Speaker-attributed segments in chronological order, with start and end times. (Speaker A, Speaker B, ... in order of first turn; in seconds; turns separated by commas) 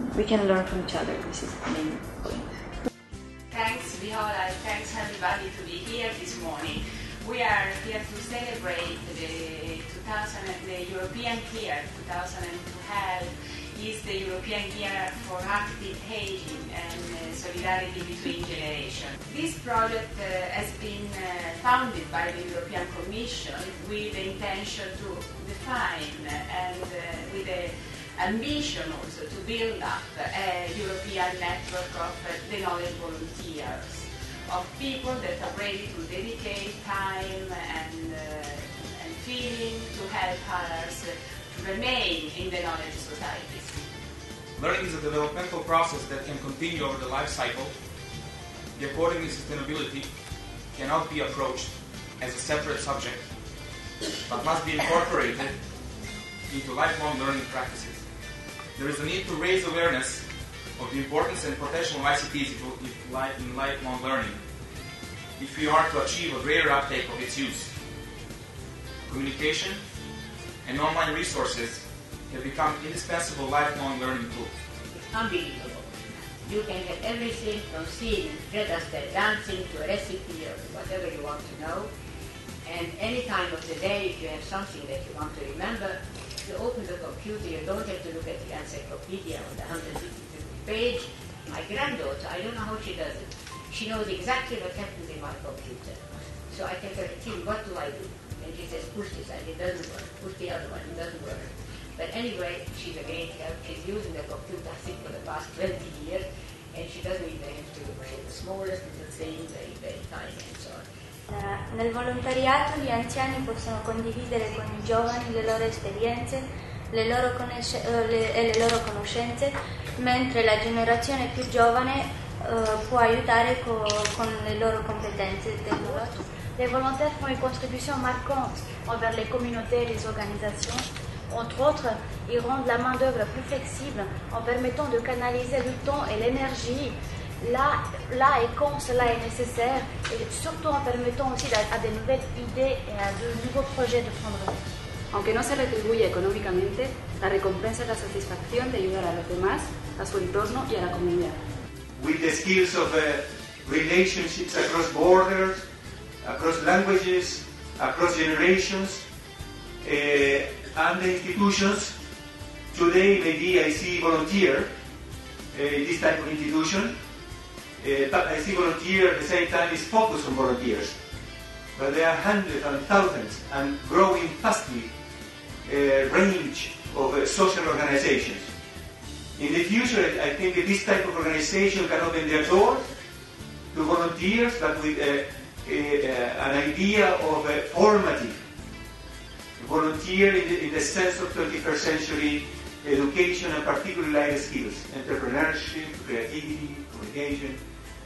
Speaker A: 0.1-2.5, Speaker B: 3.5-43.8, Speaker C: 44.6-47.7, Speaker C: 48.8-50.1, Speaker C: 50.7-53.3, Speaker C: 54.3-55.6, Speaker C: 56.5-58.0, Speaker C: 58.8-64.4, Speaker C: 65.4-67.7, Speaker C: 69.1-69.8, Speaker C: 70.6-74.5, Speaker D: 74.9-75.9, Speaker D: 76.4-81.9, Speaker D: 82.7-110.8, Speaker E: 111.3-126.2, Speaker F: 125.8-144.6, Speaker G: 145.1-151.4, Speaker H: 152.0-155.7, Speaker H: 156.2-159.1, Speaker H: 159.8-162.0, Speaker H: 162.7-164.7, Speaker H: 165.5-167.0, Speaker H: 167.8-171.0, Speaker H: 171.8-174.9, Speaker H: 175.7-178.5, Speaker H: 179.4-182.9, Speaker H: 183.7-188.4, Speaker H: 189.6-197.6